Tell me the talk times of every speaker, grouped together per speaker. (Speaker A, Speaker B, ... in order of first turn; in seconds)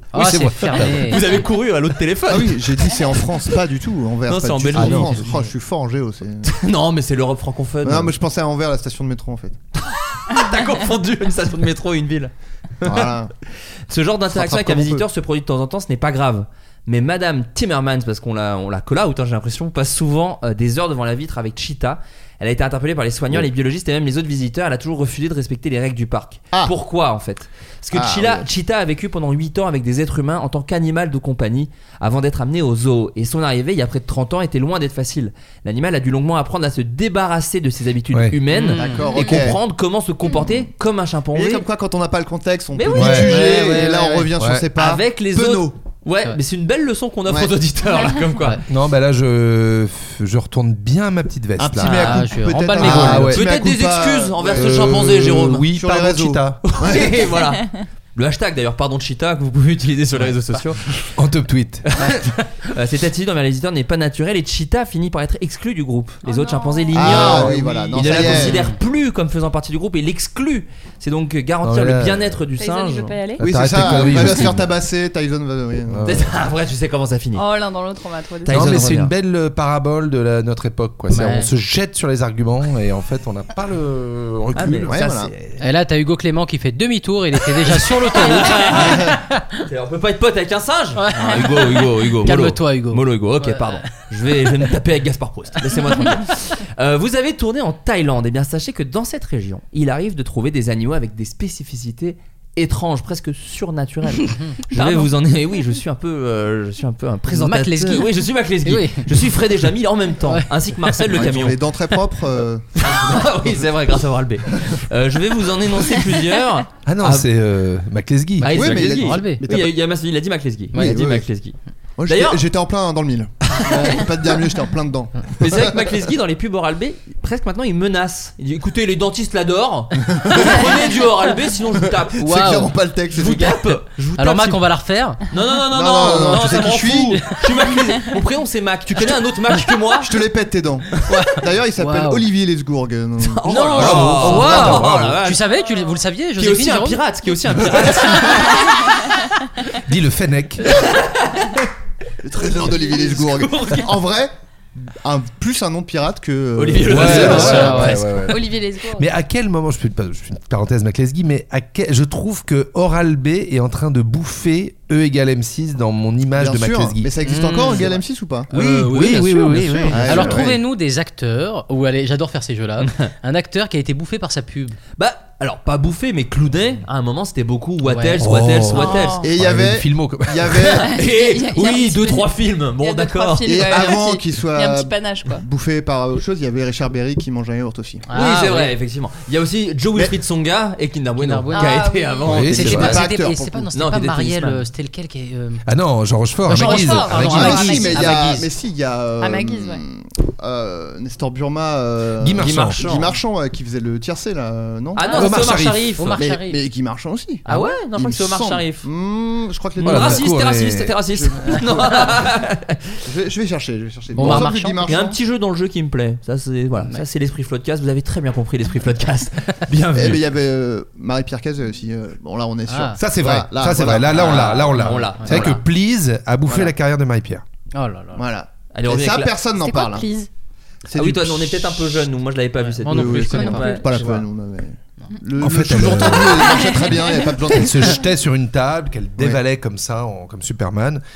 Speaker A: 0.1-1.2, 38.1-38.4, 42.9-43.5, 44.4-44.7, 48.7-52.2, 52.8-53.5, 54.5-56.6, 61.2-61.9, 71.6-72.4, 73.4-74.7, 75.9-76.3, 78.5-85.2, 116.9-118.8, 143.6-145.2, 149.9-150.7, 156.8-167.1, 168.5-170.4, 178.2-180.8, 192.3-193.0, 195.7-197.8, 202.2-202.8, 205.2-205.9, 209.8-211.0, 223.0-227.4, 235.4-236.6, 237.5-241.0
Speaker B: 0.1-1.3, 38.5-39.2, 43.1-44.3, 51.9-53.4, 68.2-68.8, 81.1-81.5, 85.6-89.4, 91.0-93.9, 107.3-108.1, 108.7-109.1, 110.3-111.0, 118.9-119.4, 120.7-121.0, 123.7-124.0, 132.2-132.7, 134.2-135.2, 141.1-142.3, 143.5-147.0, 157.0-158.0, 167.2-168.0, 170.0-174.8, 177.8-178.2, 188.1-188.7, 191.2-195.6, 196.5-198.5, 206.0-206.6, 207.5-207.8, 214.1-215.0, 222.7-223.0, 224.8-225.6, 227.7-228.2, 232.8-233.8
Speaker C: 0.9-3.0, 4.3-5.3, 6.4-8.1, 9.9-12.3, 12.8-13.1, 13.9-41.7, 42.7-43.7, 44.8-48.6, 51.8-52.1, 53.3-55.7, 56.6-61.1, 61.9-73.2, 76.1-77.5, 78.5-79.1, 84.5-85.5, 87.7-112.0, 112.8-117.3, 118.4-122.4, 125.4-134.7, 135.3-140.2, 143.2-145.4, 146.4-149.1, 150.7-151.7, 152.4-154.1, 156.6-158.0, 168.5-170.3, 172.8-173.1, 175.0-179.2, 180.9-183.9, 188.1-193.1, 193.7-194.7, 202.3-203.2, 204.9-206.2, 207.4-208.9, 209.8-212.8, 214.2-220.2, 224.1-225.6, 228.7-229.3, 230.9-234.2
Speaker D: 2.3-6.5, 7.8-9.6, 12.8-13.3, 14.3-15.1, 27.9-28.5, 38.5-39.6, 40.4-40.7, 41.3-45.8, 51.6-57.3, 66.9-68.7, 73.4-76.3, 84.9-85.3, 111.1-113.7, 118.5-119.7, 120.7-121.3, 122.0-125.8, 130.0-131.0, 132.2-133.7, 135.7-137.4, 140.0-144.8, 147.8-148.3, 152.2-158.0, 166.4-168.5, 169.9-170.6, 179.2-180.9, 183.5-188.1, 192.6-193.7, 197.1-205.6, 206.2-210.3, 211.1-212.3, 213.0-215.2, 219.9-224.4, 226.5-226.7, 228.1-230.1, 230.9-232.1, 232.8-238.0
Speaker E: 39.0-39.4, 66.2-67.5, 72.6-74.0, 77.3-78.9, 104.7-105.1, 158.1-159.1, 178.7-179.3, 180.7-185.4, 191.5-192.5, 196.5-198.3, 199.2-199.8, 229.6-230.3, 233.4-233.8, 236.6-236.9